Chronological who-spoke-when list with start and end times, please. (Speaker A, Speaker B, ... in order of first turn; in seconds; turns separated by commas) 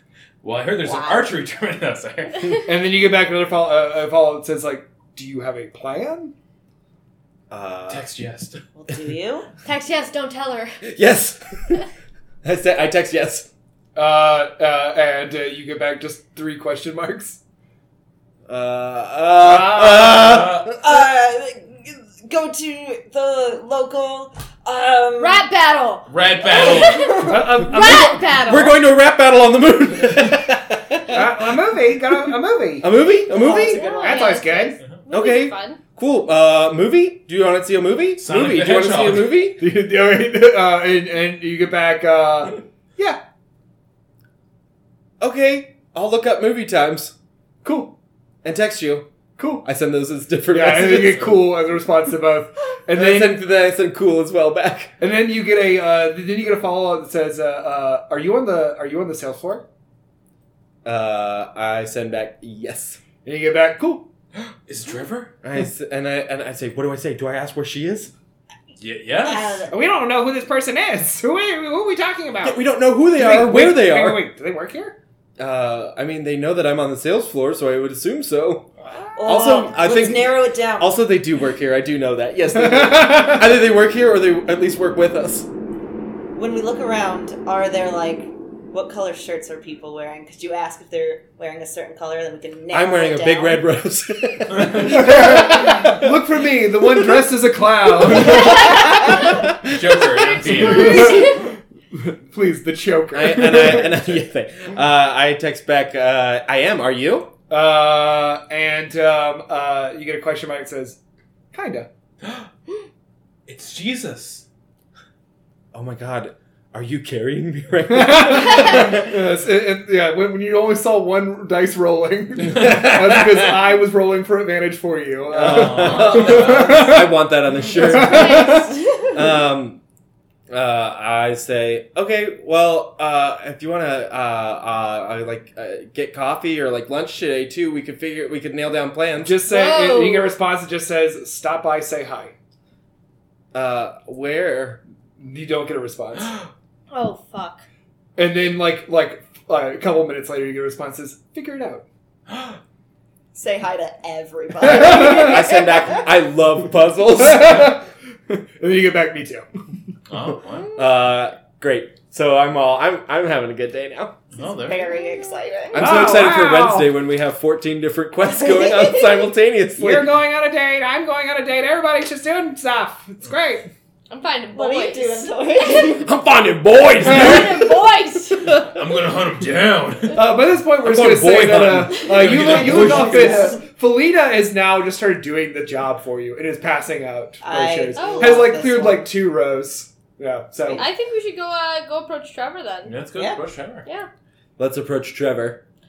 Speaker A: 0.4-2.6, Speaker B: 0.8-1.3, Speaker C: 2.6-6.3, Speaker D: 7.5-8.1, Speaker A: 7.9-8.6, Speaker B: 8.7-9.5, Speaker E: 9.6-10.8, Speaker D: 10.8-11.8, Speaker D: 12.4-13.5, Speaker C: 13.9-17.4, Speaker D: 18.5-20.8, Speaker C: 19.4-20.2, Speaker A: 20.1-20.7, Speaker B: 20.7-25.5, Speaker E: 25.2-28.8, Speaker A: 26.1-27.2, Speaker B: 26.5-27.4, Speaker C: 27.3-28.2, Speaker D: 28.4-31.3, Speaker C: 31.1-33.0, Speaker D: 32.8-33.8, Speaker B: 33.3-34.4, Speaker E: 33.3-35.8, Speaker C: 33.7-34.8, Speaker D: 35.1-39.6, Speaker A: 38.2-39.4, Speaker C: 38.3-43.2, Speaker D: 45.2-47.1, Speaker C: 47.6-47.9, Speaker D: 48.4-49.1, Speaker C: 49.4-49.6, Speaker D: 49.6-51.4, Speaker C: 50.5-53.4, Speaker D: 52.9-54.9, Speaker C: 55.0-59.6, Speaker D: 60.8-63.0, Speaker C: 63.2-64.1, Speaker A: 64.4-65.3, Speaker D: 65.4-68.1, Speaker A: 68.8-69.7, Speaker B: 69.2-69.7, Speaker C: 69.7-75.0, Speaker D: 72.4-74.2, Speaker D: 75.4-78.7, Speaker B: 79.1-80.9, Speaker D: 79.2-85.5, Speaker B: 86.3-93.6, Speaker D: 92.7-96.2, Speaker A: 94.5-94.9, Speaker C: 94.7-98.9, Speaker D: 96.8-97.3, Speaker D: 98.0-98.7, Speaker B: 98.4-99.2, Speaker D: 99.2-99.8, Speaker A: 99.6-101.3, Speaker C: 100.4-104.0, Speaker E: 100.6-101.4, Speaker D: 103.1-107.3, Speaker C: 107.5-111.0, Speaker C: 111.5-111.9, Speaker A: 112.2-112.5, Speaker A: 113.5-114.4, Speaker D: 115.7-119.2, Speaker C: 117.9-128.8, Speaker D: 122.4-123.6, Speaker D: 125.3-129.8, Speaker A: 125.4-126.8, Speaker E: 127.9-128.9, Speaker D: 130.5-139.4, Speaker C: 139.2-142.3, Speaker E: 139.4-140.4, Speaker D: 143.5-144.8, Speaker C: 145.2-146.3, Speaker E: 146.9-147.6, Speaker C: 148.2-151.8, Speaker A: 152.3-152.6, Speaker B: 153.3-156.0, Speaker C: 154.6-155.5, Speaker D: 154.7-157.7, Speaker C: 157.1-159.4, Speaker A: 160.1-160.7, Speaker D: 160.7-164.2, Speaker A: 164.3-164.9, Speaker B: 164.4-165.8, Speaker E: 164.9-165.4, Speaker D: 165.7-170.1, Speaker C: 165.8-166.9, Speaker B: 168.2-169.2, Speaker C: 169.8-173.7, Speaker E: 174.1-176.0, Speaker B: 174.5-176.1, Speaker D: 176.0-177.7, Speaker E: 177.0-178.6, Speaker C: 177.1-177.5, Speaker A: 178.7-180.2, Speaker C: 180.1-190.9, Speaker D: 180.8-183.3, Speaker A: 182.0-183.4, Speaker B: 182.3-183.6, Speaker B: 187.4-189.1, Speaker E: 187.9-188.4, Speaker E: 190.7-192.9, Speaker A: 192.8-193.8, Speaker B: 193.2-193.4, Speaker D: 194.6-195.6